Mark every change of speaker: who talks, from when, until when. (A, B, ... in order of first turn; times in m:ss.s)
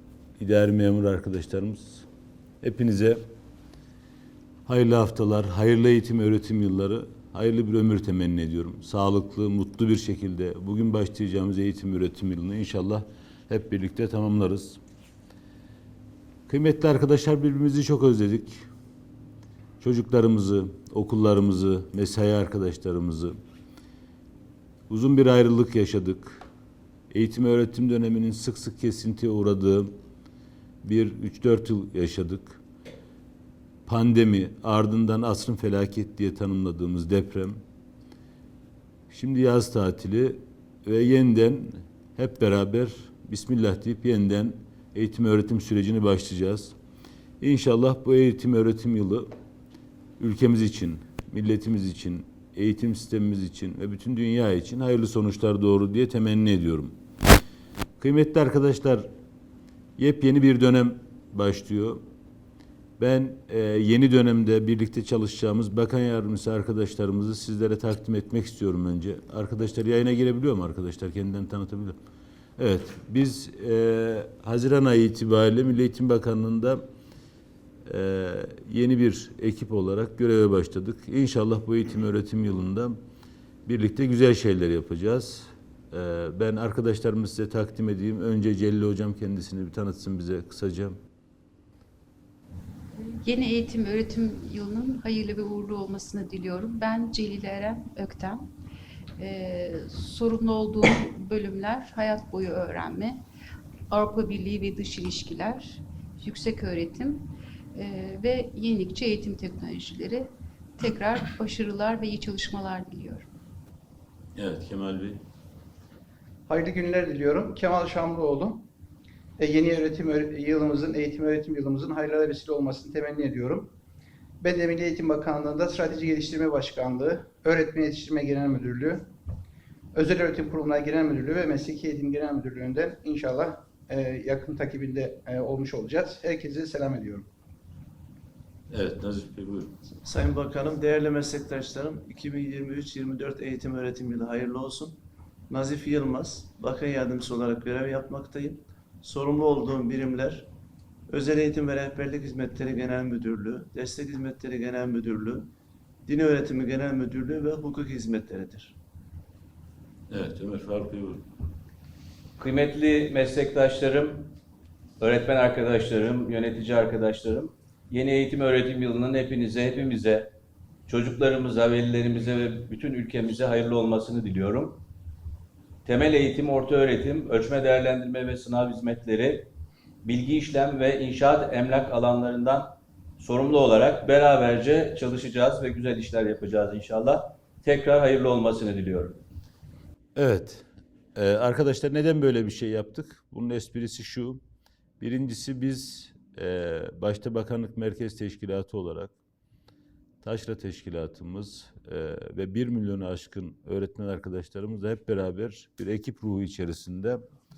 0:00.4-0:02.0 A
0:02.6-0:03.2 A
0:04.7-0:14.8 A
0:16.5-0:18.6 A
0:19.8-0:23.4 A
0:24.9-0:26.4 A
0:27.1-0:29.9 A
0:30.8-0:32.6 A
0:33.9-0:37.6 A
0:39.1-0:46.7 A
0:47.4-0:49.3 A
0:50.2-0:56.9 A
0:58.0-0:59.1 A
1:00.0-1:02.0 A
1:03.0-1:12.0 A
1:12.6-1:16.8 A
1:17.9-1:23.0 A
1:23.7-1:31.0 A
1:33.2-1:38.5 B
1:39.2-1:43.2 B
1:43.9-1:53.3 B
1:54.4-1:55.2 A
1:56.5-1:58.7 C
1:59.4-2:03.7 C
2:04.4-2:09.1 C
2:09.9-2:17.3 C
2:18.7-2:19.7 A
2:20.0-2:25.0 D
2:25.5-2:30.5 D
2:31.1-2:35.5 D
2:36.1-2:38.8 D
2:40.1-2:41.2 A
2:42.4-2:44.3 E
2:45.0-2:50.3 E
2:50.9-2:54.8 E
2:55.8-2:59.5 E
3:00.0-3:09.2 E
3:10.2-3:14.4 A
3:15.0-3:19.1 A
3:20.2-3:27.2 A